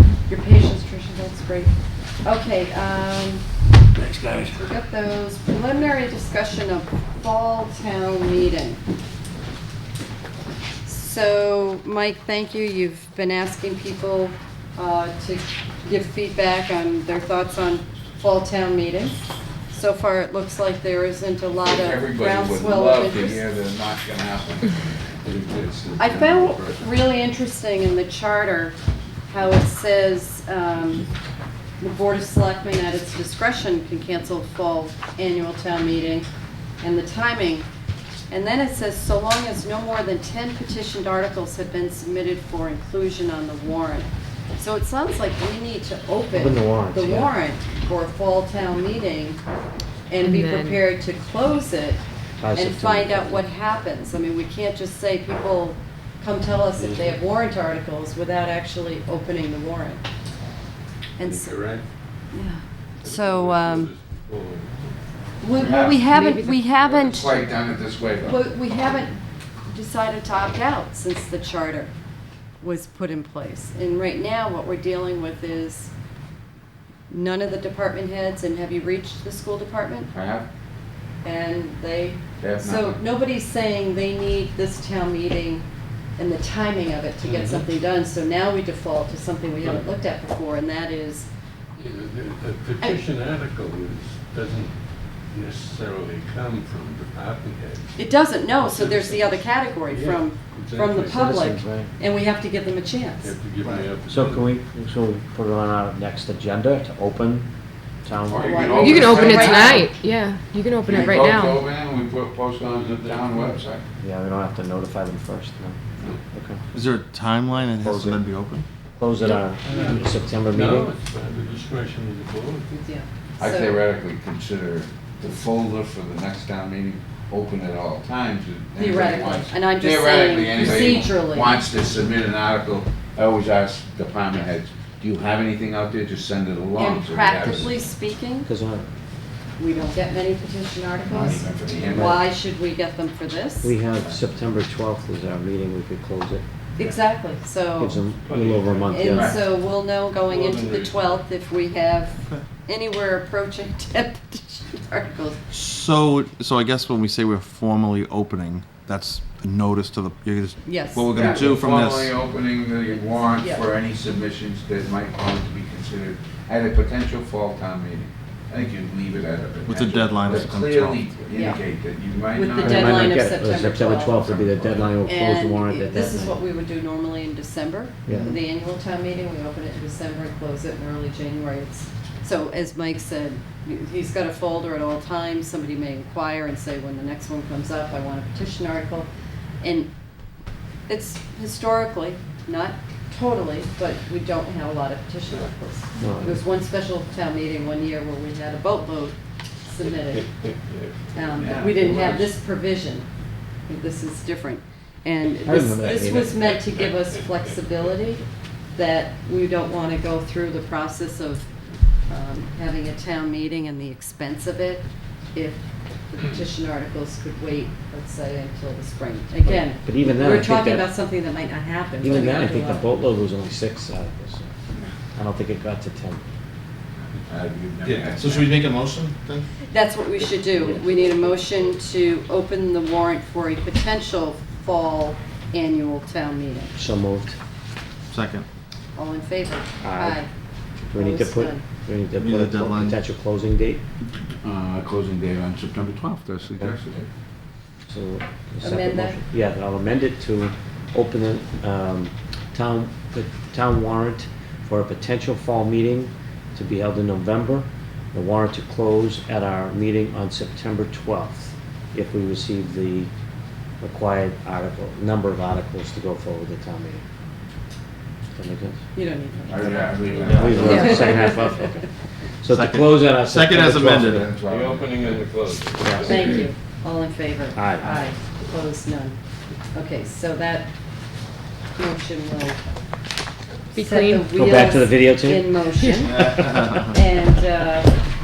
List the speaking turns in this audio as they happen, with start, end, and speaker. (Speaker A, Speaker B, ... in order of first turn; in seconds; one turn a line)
Speaker A: 0.3-1.7
Speaker A: 2.2-3.4
Speaker B: 4.1-4.4
Speaker A: 4.5-8.8
Speaker A: 10.8-19.2
Speaker A: 19.7-23.4
Speaker C: 21.6-26.8
Speaker A: 26.0-28.8
Speaker A: 29.3-31.1
Speaker A: 31.8-36.3
Speaker A: 36.8-37.7
Speaker A: 38.3-49.4
Speaker B: 46.3-47.3
Speaker A: 50.1-52.0
Speaker D: 50.2-50.8
Speaker B: 52.4-53.5
Speaker A: 52.5-60.0
Speaker E: 56.7-57.2
Speaker A: 61.2-61.6
Speaker E: 61.2-61.9
Speaker A: 62.3-63.9
Speaker E: 63.0-65.0
Speaker A: 65.4-67.5
Speaker C: 65.6-66.0
Speaker D: 66.1-66.6
Speaker C: 66.7-68.4
Speaker A: 68.2-71.9
Speaker A: 72.6-75.9
Speaker A: 77.1-80.1
Speaker C: 80.1-80.5
Speaker A: 81.2-85.7
Speaker C: 82.4-83.0
Speaker A: 86.2-91.3
Speaker E: 87.2-87.7
Speaker E: 89.6-89.9
Speaker E: 91.8-94.8
Speaker E: 95.3-97.9
Speaker A: 98.0-103.3
Speaker E: 98.6-101.3
Speaker B: 101.0-101.9
Speaker E: 103.2-104.4
Speaker B: 104.1-107.5
Speaker B: 108.0-109.0
Speaker C: 108.3-109.9
Speaker A: 108.4-109.9
Speaker D: 108.8-111.6
Speaker C: 110.9-113.8
Speaker E: 112.7-113.6
Speaker B: 114.0-115.8
Speaker B: 116.3-116.6
Speaker F: 116.7-118.7
Speaker B: 117.8-118.2
Speaker B: 119.0-120.9
Speaker E: 119.7-122.8
Speaker A: 122.7-123.8
Speaker C: 123.4-137.8
Speaker A: 128.8-131.6
Speaker A: 136.8-138.5
Speaker B: 138.5-138.9
Speaker A: 139.6-143.7
Speaker C: 141.1-142.2
Speaker B: 141.9-142.2
Speaker B: 143.6-146.4
Speaker A: 146.8-148.0
Speaker B: 147.8-149.4
Speaker E: 148.3-149.0
Speaker A: 148.9-155.4
Speaker C: 149.1-149.4
Speaker E: 150.2-151.2
Speaker F: 155.5-162.1
Speaker A: 160.7-161.4
Speaker C: 161.1-173.2
Speaker A: 162.9-163.7
Speaker F: 169.7-171.1
Speaker A: 171.3-171.6
Speaker A: 172.3-174.4
Speaker B: 172.6-176.4
Speaker C: 174.2-174.9
Speaker A: 175.1-189.1
Speaker B: 178.1-178.4
Speaker A: 189.6-189.9
Speaker A: 190.9-200.3
Speaker B: 196.0-196.4
Speaker E: 200.3-202.2
Speaker A: 201.1-203.1
Speaker C: 201.4-202.2
Speaker A: 203.7-208.2
Speaker B: 205.4-206.4
Speaker E: 205.8-207.8
Speaker A: 208.8-211.5
Speaker A: 212.1-222.9
Speaker B: 219.4-220.9
Speaker B: 222.0-224.5
Speaker B: 225.2-226.2
Speaker C: 227.2-228.5
Speaker F: 228.1-229.5
Speaker A: 229.7-236.8
Speaker B: 236.8-237.4
Speaker F: 238.1-238.5
Speaker A: 239.0-240.3
Speaker B: 239.8-240.2
Speaker B: 240.9-243.8
Speaker A: 240.9-241.6
Speaker F: 242.2-243.0
Speaker C: 244.4-247.1
Speaker B: 247.9-263.1
Speaker A: 248.6-249.2
Speaker B: 263.8-267.0
Speaker B: 268.4-268.8
Speaker A: 268.9-271.7
Speaker C: 269.5-271.1
Speaker F: 270.2-271.1
Speaker B: 270.3-271.8
Speaker B: 272.4-274.2
Speaker F: 272.5-274.3
Speaker C: 273.9-275.2
Speaker E: 274.5-276.3
Speaker B: 275.8-276.2
Speaker A: 276.0-279.2
Speaker B: 277.6-277.9
Speaker A: 279.7-280.7
Speaker A: 281.8-282.6
Speaker D: 283.7-284.3
Speaker A: 283.8-288.0
Speaker B: 284.3-286.9